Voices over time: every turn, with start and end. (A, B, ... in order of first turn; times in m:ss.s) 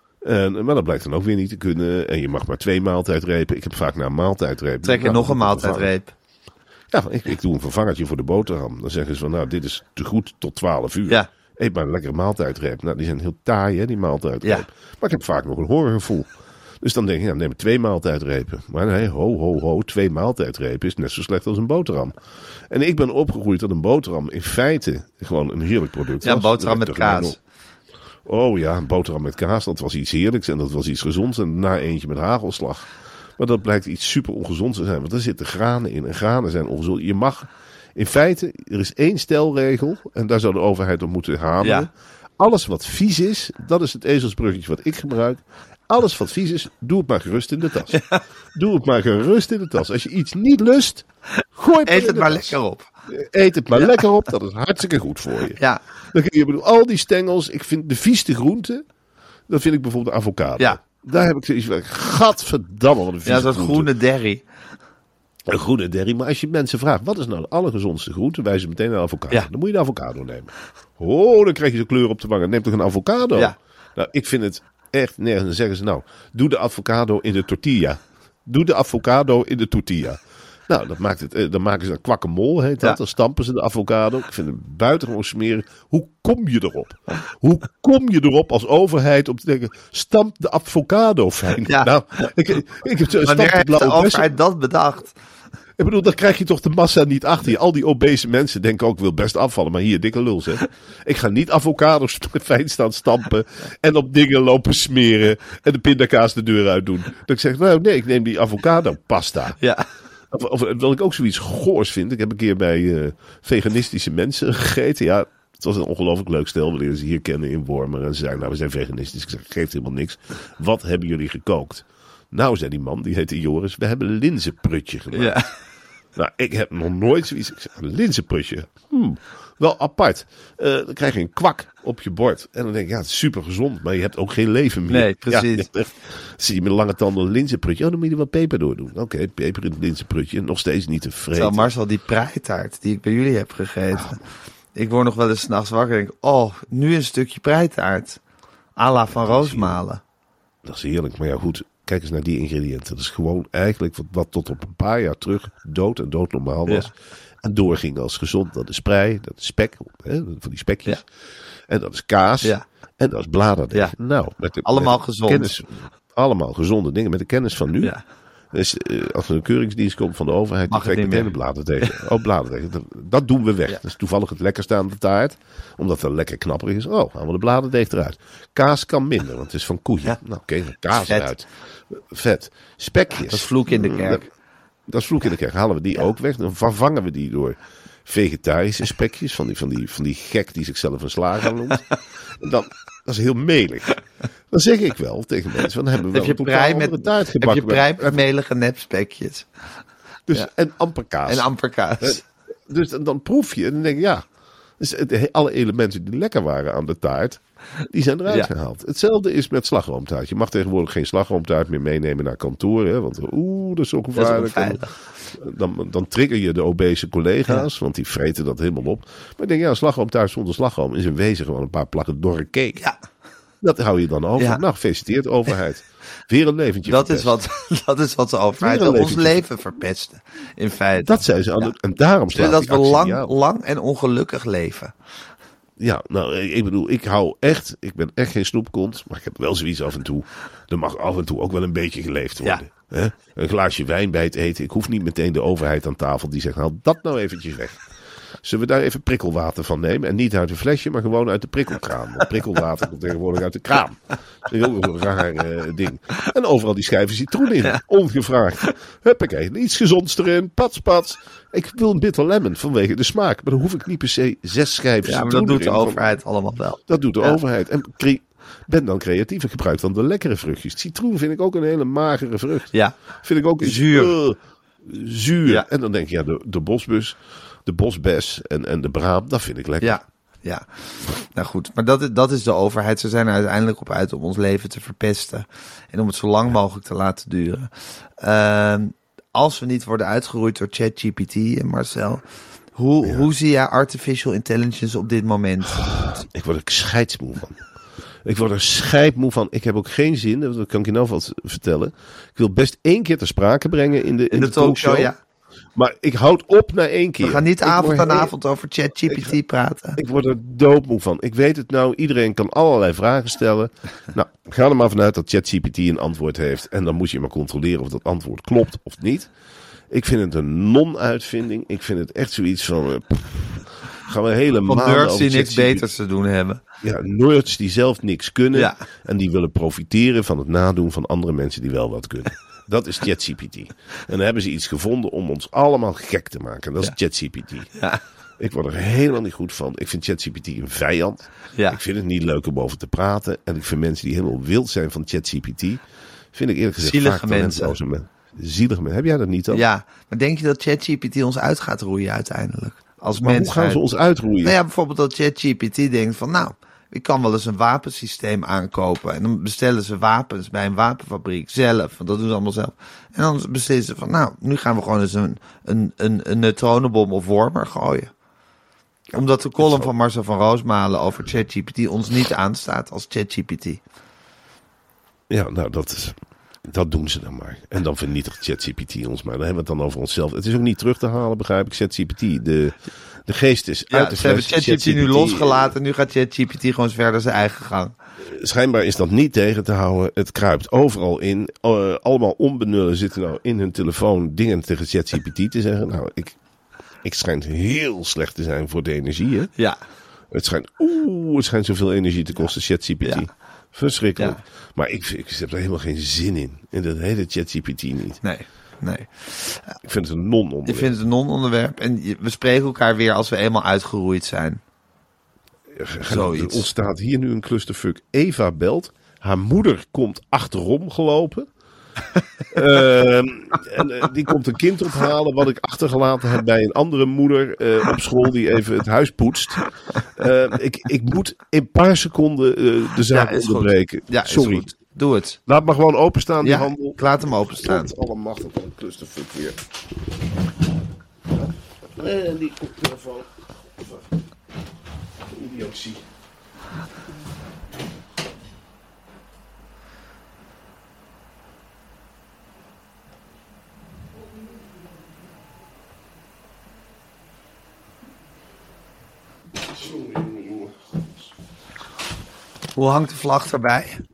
0:00.2-0:05.9 A
0:04.8-0:06.1 B
0:06.9-0:16.3 A
0:16.8-0:22.2 A
0:22.7-0:27.4 A
0:26.2-0:27.4 B
0:28.3-0:48.0 A
0:41.6-0:41.9 B
0:47.9-0:48.2 B
0:48.5-0:55.6 A
0:51.9-0:52.9 B
0:53.8-0:54.0 B
0:56.1-0:58.8 A
0:59.5-1:03.9 A
1:03.2-1:04.4 B
1:05.5-1:34.3 A
1:31.7-1:32.3 B
1:33.2-1:35.1 B
1:35.8-1:49.6 A
1:49.6-1:49.9 B
1:50.3-2:05.4 A
2:05.1-2:05.5 B
2:06.2-2:21.7 A
2:14.9-2:15.7 B
2:21.4-2:24.2 B
2:24.8-2:28.2 B
2:28.8-2:30.0 B
2:29.1-2:29.8 A
2:30.6-2:41.1 A
2:41.7-2:48.0 A
2:44.6-2:45.6 B
2:48.5-3:04.3 A
2:50.7-2:51.3 B
3:01.0-3:01.3 B
3:03.2-3:04.3 B
3:04.9-3:11.9 A
3:12.4-3:14.0 A
3:14.5-3:18.2 A
3:16.1-3:19.5 B
3:20.3-3:21.5 A
3:21.3-3:22.2 B
3:22.0-3:24.3 A
3:24.8-3:42.8 A
3:34.2-3:34.9 B
3:43.6-3:47.3 A
3:46.9-3:51.7 B
3:48.6-3:49.4 A
3:51.0-3:53.3 A
3:52.3-3:54.9 B
3:55.8-4:07.8 A
4:08.4-4:26.2 A
4:25.0-4:27.4 B
4:26.9-4:40.0 A
4:33.6-4:34.1 B
4:39.8-4:52.2 B
4:52.8-4:56.2 B
4:55.8-4:57.6 A
4:58.2-5:05.1 A
5:04.3-5:05.2 B
5:05.8-5:08.3 A
5:07.2-5:10.0 B
5:09.1-5:09.4 A
5:10.0-5:19.3 A
5:19.9-5:25.9 A
5:24.7-5:26.6 B
5:26.8-5:37.7 A
5:28.5-5:28.8 B
5:37.8-5:38.0 B
5:38.4-5:49.6 A
5:41.6-5:41.8 B
5:46.8-5:47.8 B
5:49.5-5:53.8 B
5:53.1-5:54.6 A
5:54.4-6:08.1 B
6:09.1-6:13.8 B
6:09.2-6:09.9 A
6:15.3-6:25.7 A
6:23.9-6:27.9 B
6:28.2-6:36.4 A
6:37.0-6:39.5 A
6:40.3-6:48.2 A
6:48.2-6:49.8 B
6:49.8-6:50.9 A
6:50.7-6:54.6 B
6:55.7-7:01.5 A
6:56.1-6:56.7 B
7:02.5-7:14.7 A
7:13.1-7:15.4 B
7:15.5-7:19.6 A
7:16.4-7:17.9 B
7:21.4-7:24.1 A
7:25.2-7:26.0 A
7:39.6-7:40.8 A
7:42.8-7:44.0 B